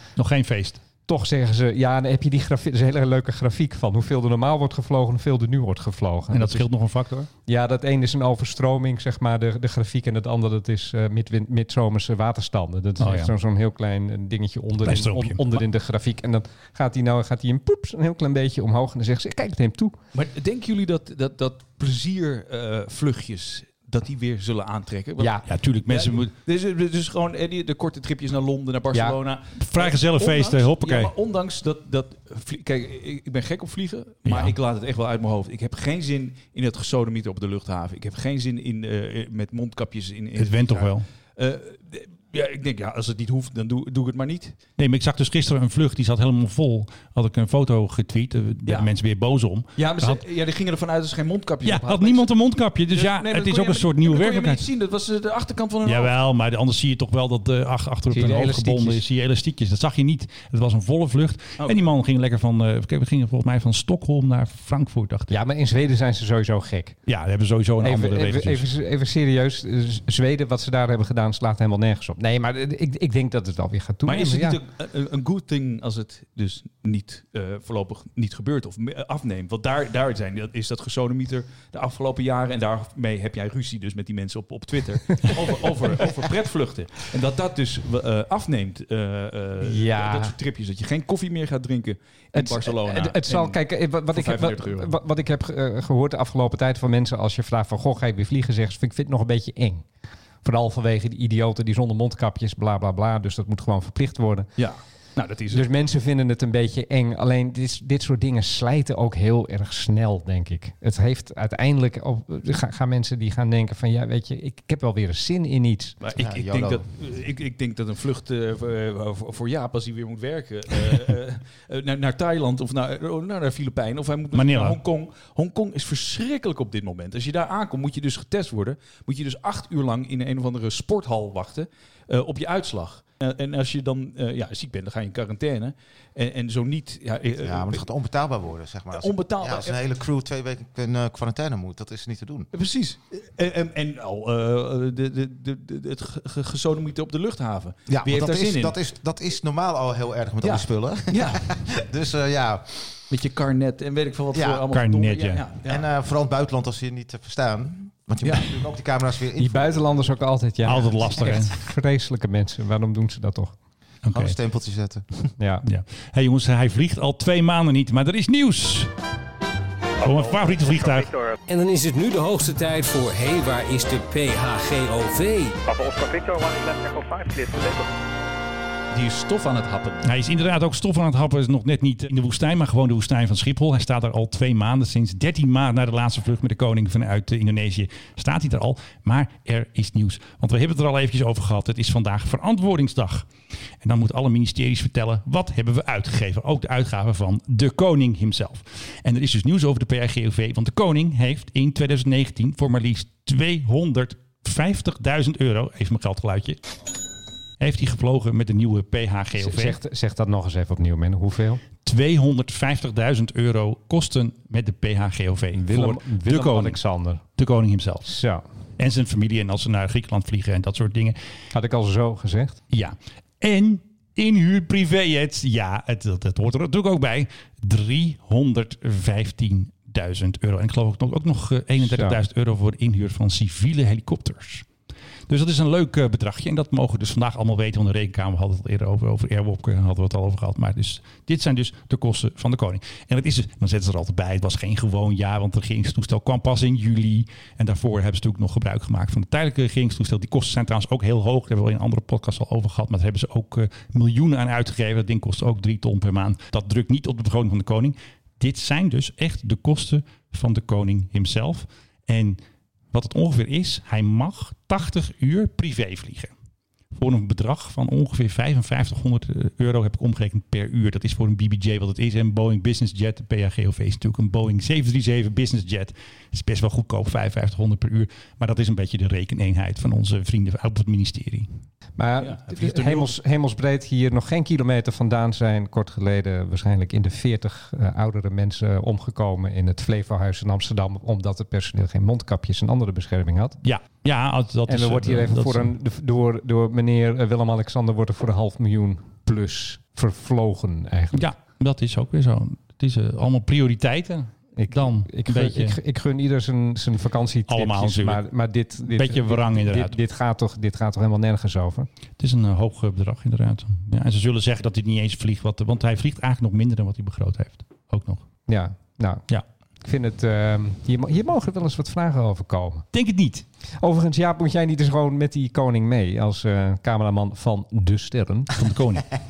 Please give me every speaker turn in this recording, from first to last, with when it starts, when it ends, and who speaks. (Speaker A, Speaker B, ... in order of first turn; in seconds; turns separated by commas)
Speaker A: 0.2-0.8, Speaker B: 1.1-6.7, Speaker A: 6.3-7.3, Speaker B: 7.5-19.9, Speaker A: 13.0-13.3, Speaker A: 14.8-15.6, Speaker C: 20.1-44.6, Speaker B: 25.2-25.4, Speaker A: 25.4-26.3, Speaker A: 29.6-31.1, Speaker A: 34.2-34.5, Speaker A: 40.4-41.0, Speaker A: 44.8-50.2, Speaker C: 49.8-52.3, Speaker A: 51.6-54.7, Speaker C: 52.9-56.1, Speaker A: 55.8-65.3, Speaker B: 58.1-59.0, Speaker C: 61.6-61.9, Speaker B: 65.3-67.0, Speaker A: 67.0-68.7, Speaker B: 67.8-74.6, Speaker C: 74.0-95.0, Speaker B: 89.6-90.3, Speaker B: 92.3-99.8, Speaker B: 100.4-104.5, Speaker C: 104.6-105.7, Speaker B: 105.5-116.0, Speaker C: 116.0-137.8, Speaker D: 116.2-116.8, Speaker A: 124.3-124.8, Speaker D: 137.4-142.5, Speaker C: 138.9-139.8, Speaker C: 142.5-148.8, Speaker D: 147.9-153.0, Speaker C: 150.4-151.4, Speaker C: 153.1-155.9, Speaker D: 154.3-154.6, Speaker A: 154.7-155.4, Speaker D: 155.7-160.1, Speaker C: 158.2-158.5, Speaker B: 159.4-163.5, Speaker A: 160.6-161.5, Speaker A: 164.0-164.3, Speaker D: 164.1-165.3, Speaker B: 165.4-165.7, Speaker A: 165.6-168.9, Speaker A: 170.0-171.1, Speaker E: 170.0-171.4, Speaker F: 171.5-175.6, Speaker E: 175.7-177.9, Speaker C: 178.9-180.0, Speaker A: 180.0-193.3, Speaker A: 193.8-206.6, Speaker A: 207.6-209.8, Speaker B: 209.3-211.6, Speaker A: 211.8-218.2, Speaker B: 215.5-217.2, Speaker B: 218.1-218.4, Speaker A: 218.8-221.2, Speaker B: 221.5-222.6, Speaker A: 222.7-234.7, Speaker B: 231.8-232.2, Speaker A: 235.3-262.4, Speaker A: 262.9-266.3, Speaker A: 266.9-281.5, Speaker B: 282.0-293.6, Speaker C: 282.2-283.1, Speaker A: 293.6-295.7, Speaker B: 294.7-301.3, Speaker A: 301.1-305.8, Speaker B: 304.6-311.9, Speaker A: 307.5-308.2, Speaker A: 308.8-310.0, Speaker A: 312.2-318.2, Speaker B: 318.5-319.2, Speaker B: 319.8-322.8, Speaker A: 322.9-323.4, Speaker B: 323.8-328.5, Speaker A: 328.5-329.1